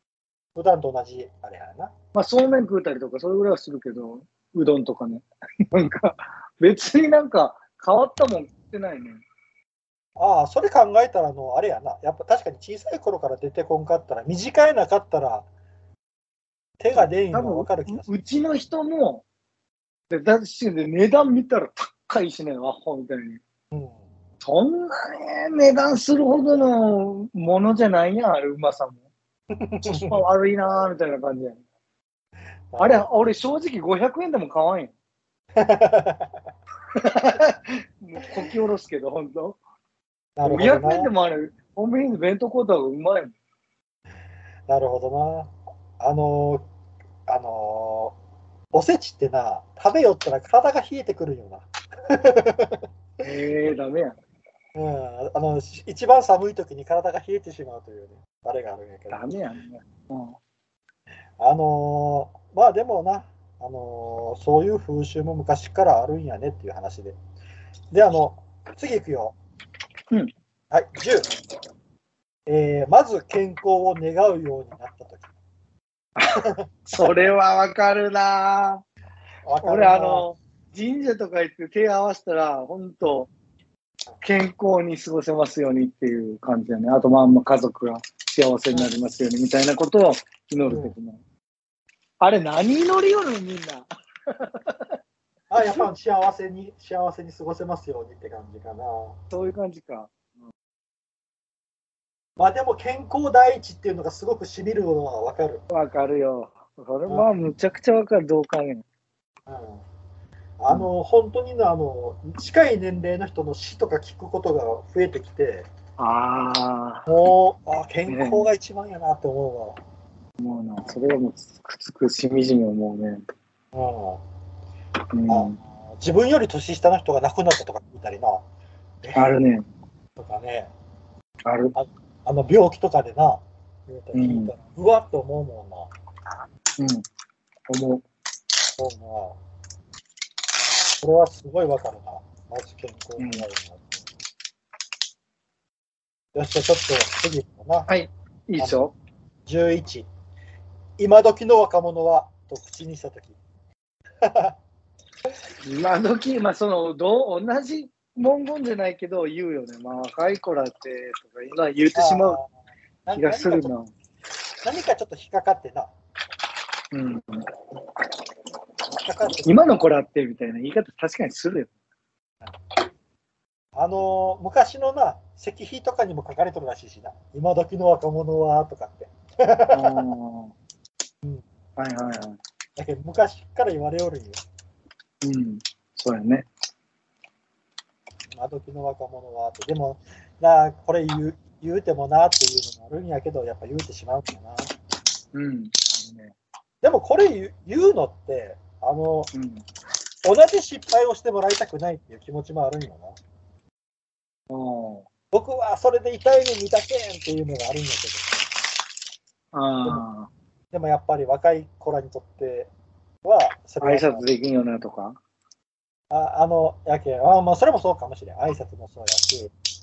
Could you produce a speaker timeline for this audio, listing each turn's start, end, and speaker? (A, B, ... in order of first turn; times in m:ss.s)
0:00.5-0:01.9 A
0:02.1-0:09.2 B
0:10.2-0:15.5 A
0:16.8-0:18.2 A
0:16.9-0:19.2 B
0:20.1-0:23.4 B
0:23.7-0:24.0 A
0:24.4-0:29.0 B
0:29.5-0:30.2 A
0:29.8-0:31.6 B
0:32.7-0:33.1 A
0:32.8-0:34.9 B
0:35.6-0:36.3 A
0:36.9-0:39.6 B
0:40.4-0:41.1 A
0:40.4-0:43.3 B
0:44.7-0:46.6 A
0:47.3-0:48.2 A
0:48.7-0:52.8 A
0:53.2-0:54.2 B
0:54.7-0:59.2 A
0:59.1-1:00.4 B
1:01.4-1:07.2 A
1:07.9-1:09.3 A
1:10.7-1:11.3 A
1:12.5-1:15.3 A
1:16.2-1:18.8 B
1:19.4-1:20.3 A
1:19.6-1:23.3 B
1:24.2-1:31.2 B
1:30.7-1:30.9 A
1:32.2-1:34.9 B
1:35.5-1:39.2 A
1:35.6-1:35.9 B
1:39.3-1:40.1 B
1:42.4-1:45.6 A
1:45.7-1:48.8 B
1:49.5-1:49.8 A
1:50.6-1:55.7 A
1:56.0-1:57.1 B
1:57.1-1:59.8 A
1:58.1-1:58.4 B
2:00.4-2:03.2 B
2:03.7-2:04.2 A
2:05.1-2:05.6 B
2:05.3-2:08.4 A
2:09.0-2:09.4 A
2:09.1-2:09.6 B
2:10.2-2:10.7 A
2:11.4-2:11.7 B
2:11.7-2:15.9 A
2:14.1-2:14.5 B
2:16.8-2:17.0 B
2:17.7-2:18.0 B
2:18.8-2:19.4 A
2:21.0-2:24.0 A
2:23.2-2:23.4 B
2:26.3-2:27.9 A
2:27.9-2:28.9 B
2:28.6-2:28.8 A
2:29.4-2:30.1 A
2:31.0-2:33.4 A
2:34.2-2:34.6 A
2:35.6-2:42.4 B
2:41.9-2:42.5 A
2:43.0-2:43.7 A
2:43.1-2:43.9 B
2:44.6-2:45.9 A
2:46.9-2:47.5 B
2:49.0-2:49.6 A
2:49.4-2:51.7 B
2:53.7-3:00.0 A
2:59.7-3:00.5 B
3:01.8-3:02.4 B
3:02.8-3:04.4 A
3:05.2-3:06.5 B
3:08.3-3:14.7 A
3:15.3-3:16.4 B
3:16.8-3:19.3 A
3:19.3-3:19.6 B
3:20.2-3:23.2 A
3:24.5-3:25.1 B
3:25.3-3:28.3 A
3:29.5-3:30.3 B
3:30.7-3:32.7 A
3:33.2-3:34.2 A
3:33.8-3:35.2 B
3:36.1-3:39.5 A